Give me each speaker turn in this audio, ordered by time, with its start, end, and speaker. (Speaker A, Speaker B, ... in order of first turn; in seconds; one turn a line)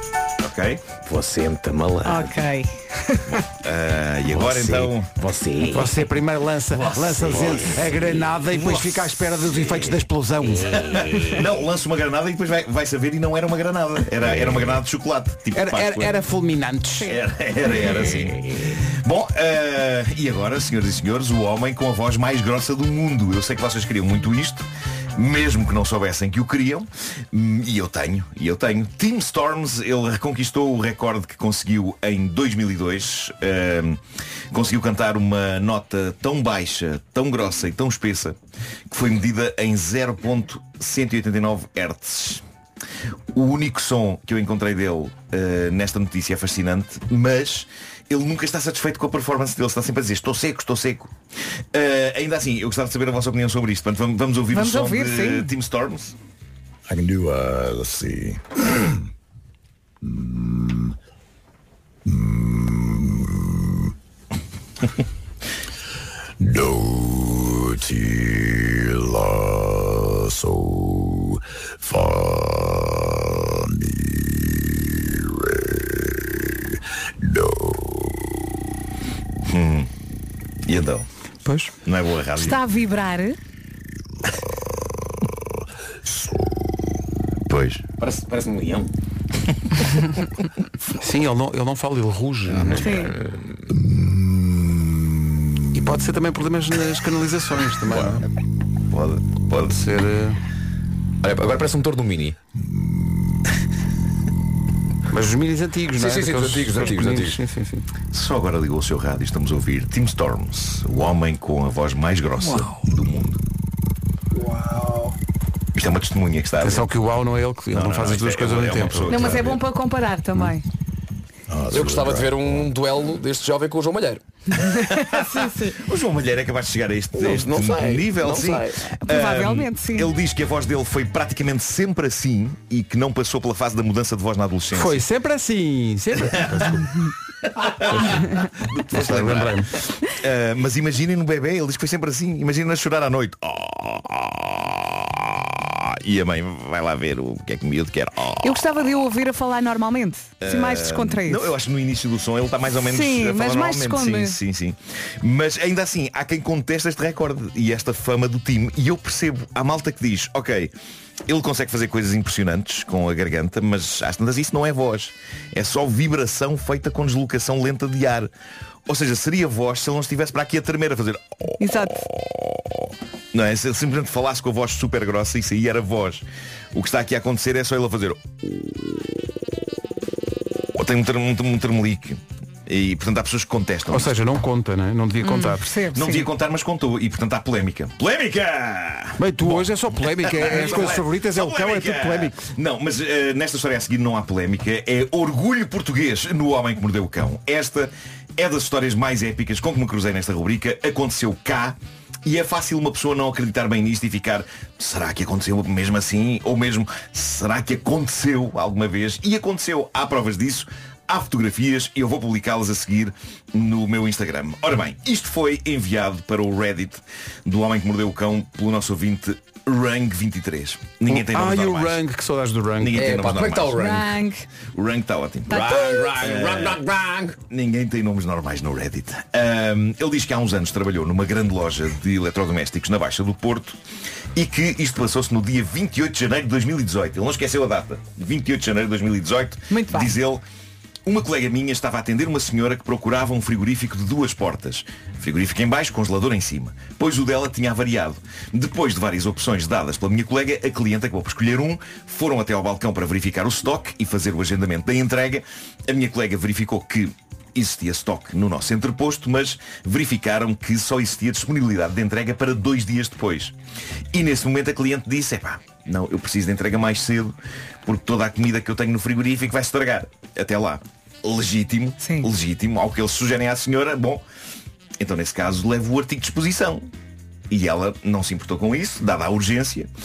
Speaker A: 0.4-0.8
Speaker B: 1.1-2.3
Speaker C: 2.0-3.4
Speaker A: 3.6-5.1
Speaker B: 4.3-6.0
Speaker D: 5.7-10.9
Speaker A: 8.6-9.0
Speaker A: 10.8-16.2
Speaker D: 15.5-17.1
Speaker A: 17.0-34.0
Speaker A: 34.5-38.4
Speaker A: 38.9-42.4
Speaker A: 43.3-51.1
Speaker A: 51.7-56.2
Speaker C: 54.5-55.5
Speaker E: 56.9-59.0
Speaker E: 60.0-61.0
Speaker E: 62.0-63.9
Speaker E: 66.4-78.4
Speaker A: 79.4-79.9
Speaker A: 80.7-81.1
Speaker D: 81.5-81.7
Speaker A: 81.8-82.6
Speaker C: 82.3-83.4
Speaker E: 84.5-85.3
Speaker E: 86.1-86.5
Speaker A: 87.5-87.8
Speaker B: 88.0-88.9
Speaker D: 91.0-93.1
Speaker B: 92.5-93.5
Speaker C: 92.8-93.2
Speaker E: 93.8-95.0
Speaker D: 95.7-98.2
Speaker A: 98.9-99.8
Speaker D: 99.7-100.4
Speaker B: 101.2-102.4
Speaker E: 102.6-103.4
Speaker D: 105.1-107.9
Speaker B: 105.9-107.4
Speaker A: 108.1-113.4
Speaker E: 114.4-115.1
Speaker A: 115.8-116.9
Speaker D: 116.6-119.3
Speaker A: 117.7-119.6
Speaker C: 119.1-120.6
Speaker E: 121.5-122.7
Speaker B: 121.7-124.2
Speaker C: 124.5-125.8
Speaker A: 124.7-135.0
Speaker B: 127.1-128.9
Speaker C: 129.0-130.1
Speaker D: 134.7-136.9
Speaker A: 136.3-136.7
Speaker A: 137.5-144.9
Speaker D: 137.9-138.3
Speaker D: 138.9-139.8
Speaker A: 145.6-148.6
Speaker C: 148.4-151.5
Speaker A: 150.4-160.7
Speaker C: 152.8-154.4
Speaker A: 161.3-168.3
Speaker A: 168.9-179.0
Speaker C: 171.6-172.1
Speaker A: 180.7-184.1
Speaker D: 183.9-185.7
Speaker C: 185.2-186.3
Speaker A: 185.9-222.0
Speaker D: 189.2-192.4
Speaker D: 221.1-223.0
Speaker A: 222.8-223.8
Speaker B: 222.9-224.2
Speaker C: 223.8-224.5
Speaker A: 224.7-226.8
Speaker C: 225.5-226.2
Speaker B: 225.5-227.3
Speaker A: 227.5-233.8
Speaker A: 234.3-240.4
Speaker C: 239.7-240.2
Speaker A: 241.1-263.5
Speaker A: 264.1-267.3
Speaker A: 267.9-274.2
Speaker C: 272.0-272.3
Speaker A: 275.0-276.9
Speaker A: 277.5-279.9